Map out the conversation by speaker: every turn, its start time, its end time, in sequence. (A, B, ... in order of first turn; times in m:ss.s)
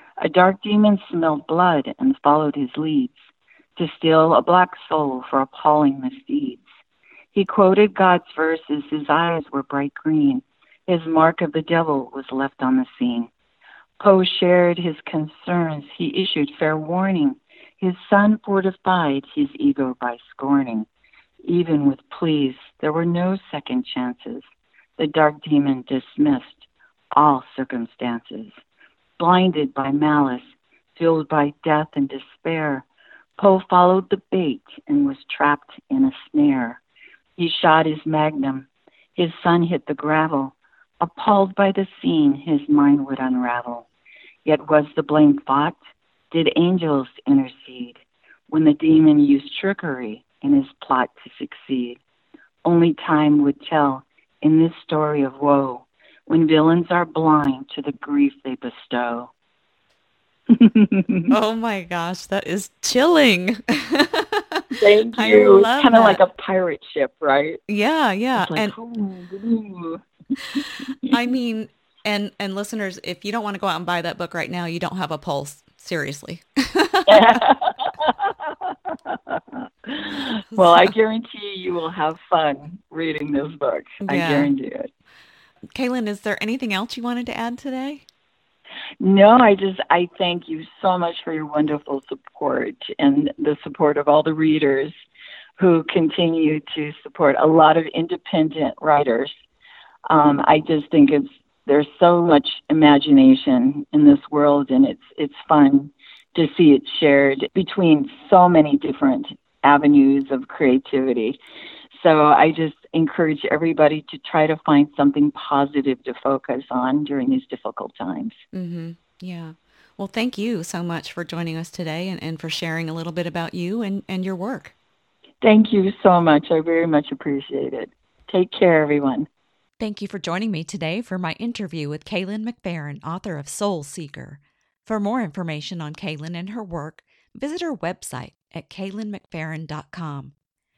0:00.2-0:06.6 A
0:07.3-0:13.3 A
0:14.0-0:20.9 A
0:21.5-0:24.4 A
0:25.0-0:28.6 A
0:29.2-0:32.9 A
0:33.4-0:36.8 A
0:37.4-0:43.9 A
0:44.4-0:45.8 A
0:46.3-0:48.0 A
0:48.5-0:52.0 A
0:52.6-0:59.3 A
1:00.5-1:01.3 A
1:01.3-1:06.2 B
1:04.7-1:07.6 A
1:07.7-1:08.7 B
1:08.4-1:11.2 A
1:11.1-1:17.3 B
1:17.1-1:24.9 A
1:20.6-1:20.9 B
1:24.0-1:24.5 B
1:25.8-1:28.0 B
1:29.0-1:34.9 A
1:35.6-1:39.4 A
1:40.1-1:51.4 A
1:51.9-1:58.4 A
1:58.5-2:04.7 B
2:05.4-2:09.3 A
2:09.8-2:20.3 B